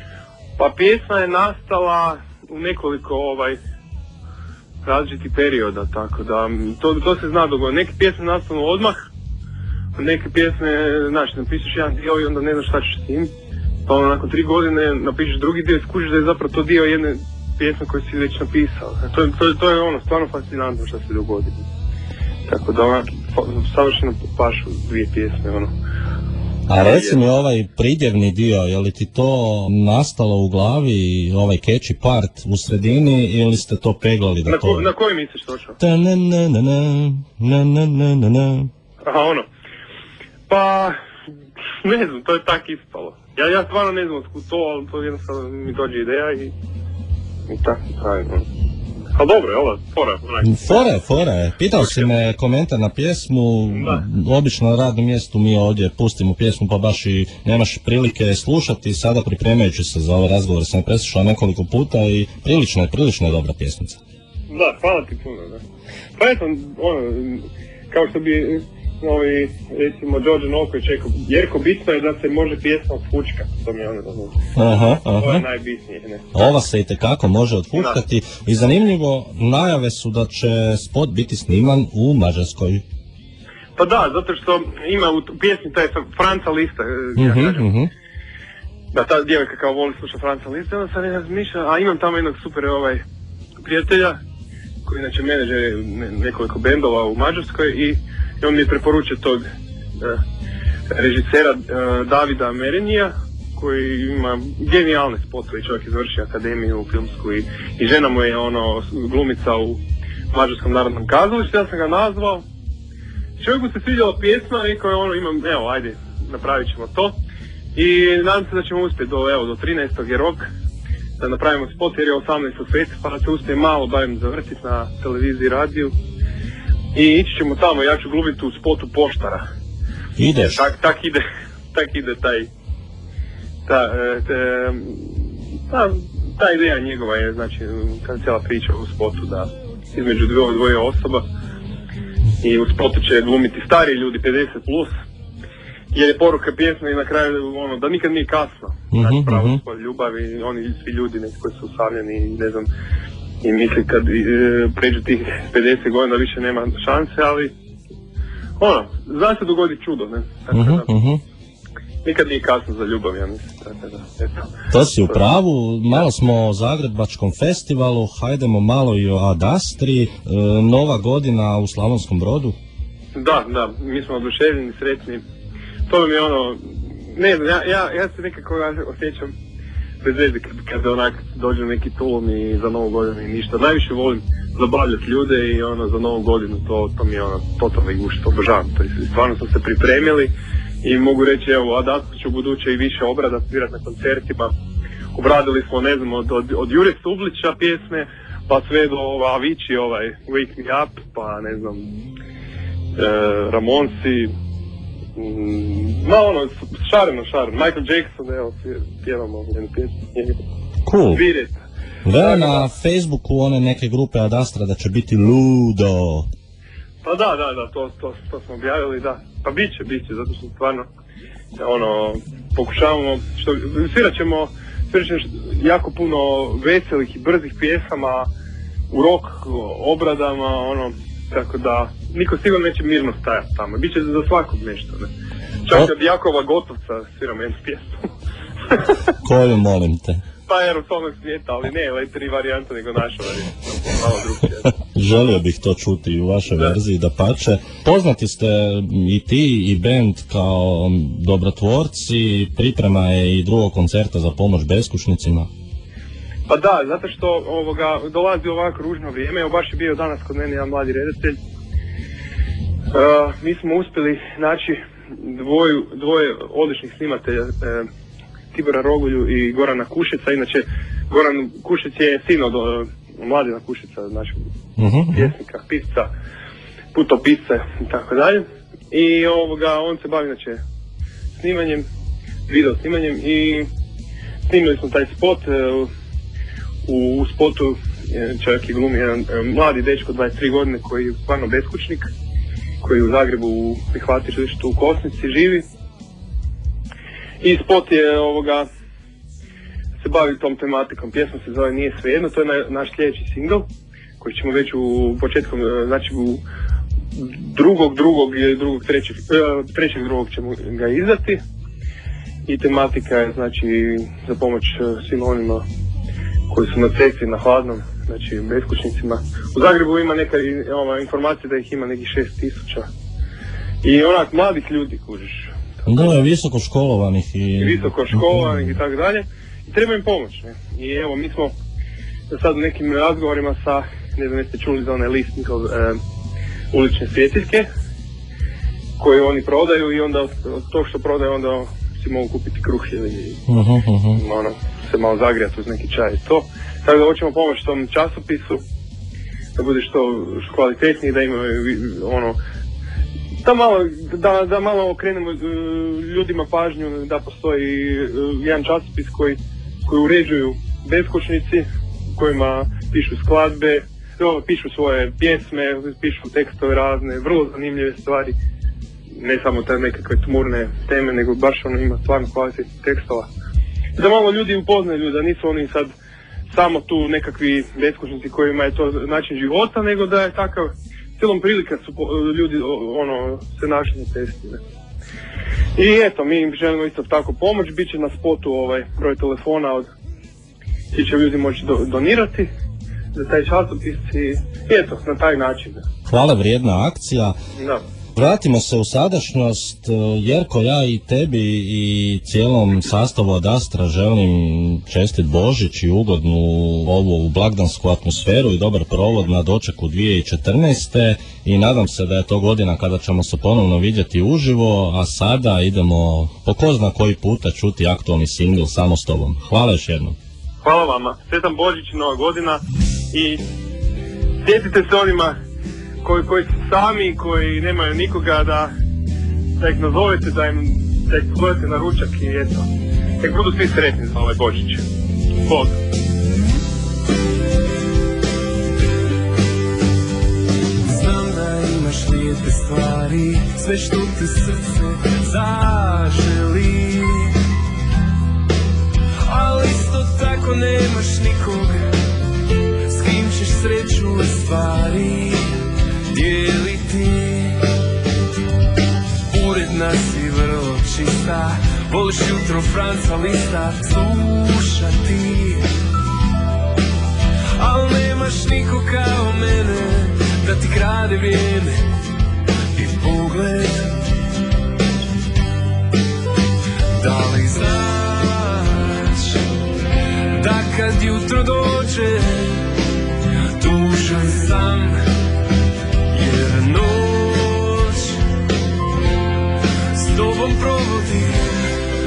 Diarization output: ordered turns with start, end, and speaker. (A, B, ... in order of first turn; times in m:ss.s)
0:00.6-0:03.6 A
0:04.8-0:09.0 A
0:09.9-0:13.3 A
0:13.8-0:21.6 A
0:22.5-0:25.7 A
0:26.7-0:34.9 B
0:26.7-0:27.2 A
0:34.4-0:35.8 A
0:35.8-0:38.7 B
0:39.0-0:39.4 A
0:40.5-0:40.9 A
0:41.8-0:46.5 A
0:47.5-0:48.4 A
0:49.1-0:50.5 A
0:50.4-1:04.0 B
0:51.7-0:52.1 A
0:53.7-0:54.0 A
1:04.5-1:05.6 A
1:06.2-1:16.2 A
1:14.6-1:15.4 B
1:16.3-1:22.8 B
1:23.8-1:27.6 A
1:27.2-1:27.9 B
1:28.9-1:33.0 A
1:33.6-1:34.2 A
1:34.8-1:39.4 A
1:40.9-1:52.4 A
1:53.4-1:57.1 A
1:57.7-2:00.4 A
2:01.2-2:05.9 A
2:06.9-2:09.4 A
2:10.2-2:10.6 B
2:10.4-2:11.2 A
2:11.7-2:12.5 A
2:13.6-2:21.2 A
2:22.4-2:24.9 A
2:25.9-2:32.7 A
2:28.9-2:29.6 B
2:33.4-2:37.5 A
2:38.6-2:40.9 A
2:40.5-2:41.2 B
2:42.0-2:44.5 A
2:44.7-2:52.6 B
2:53.1-2:55.2 A
2:55.9-2:59.3 A
3:00.0-3:10.3 A
3:10.8-3:14.5 A
3:15.1-3:21.9 A
3:23.0-3:24.3 A
3:25.2-3:30.4 A
3:30.8-3:31.2 B
3:31.1-3:31.6 A
3:32.0-3:36.2 B
3:32.2-3:32.7 A
3:37.0-3:40.9 A
3:41.6-3:48.3 A
3:48.9-3:55.1 A
3:55.6-3:57.9 A
3:59.2-4:00.2 B
4:00.5-4:04.7 A
4:04.9-4:15.5 B
4:16.5-4:21.4 A
4:22.9-4:27.9 A
4:28.5-4:34.4 A
4:34.8-4:35.3 B
4:35.1-4:36.1 A
4:36.9-4:40.6 A
4:41.4-4:41.8 A
4:42.5-4:43.7 A
4:44.5-4:45.9 A
4:46.8-4:52.0 A
4:52.8-4:55.6 A
4:57.4-4:58.6 A
5:00.0-5:03.6 A
5:04.2-5:06.4 A
5:07.1-5:11.4 A
5:12.5-5:15.6 A
5:16.5-5:22.8 A
5:23.8-5:26.2 A
5:25.8-5:28.7 B
5:27.6-5:31.5 A
5:32.3-5:36.0 A
5:36.7-5:37.6 A
5:39.0-5:43.4 A
5:43.5-5:44.2 B
5:44.1-5:48.6 A
5:49.6-5:52.4 A
5:53.4-6:08.3 A
6:09.2-6:13.3 A
6:14.0-6:15.9 A
6:16.5-6:24.6 A
6:25.8-6:29.9 A
6:30.9-6:32.5 A
6:33.1-6:35.8 A
6:36.1-6:37.3 B
6:38.1-7:00.2 B
7:00.6-7:03.4 A
7:04.4-7:05.3 A
7:06.0-7:08.7 A
7:09.6-7:12.6 A
7:13.2-7:14.8 A
7:15.4-7:15.8 A
7:20.8-7:27.4 C
7:29.2-7:31.9 C
7:32.9-7:37.8 C
7:39.3-7:45.7 C
7:47.6-7:51.8 C
7:52.7-7:53.9 C
7:57.0-7:59.4 C
8:00.3-8:02.7 C
8:03.6-8:05.0 C
8:06.1-8:08.2 C
8:09.9-8:11.7 C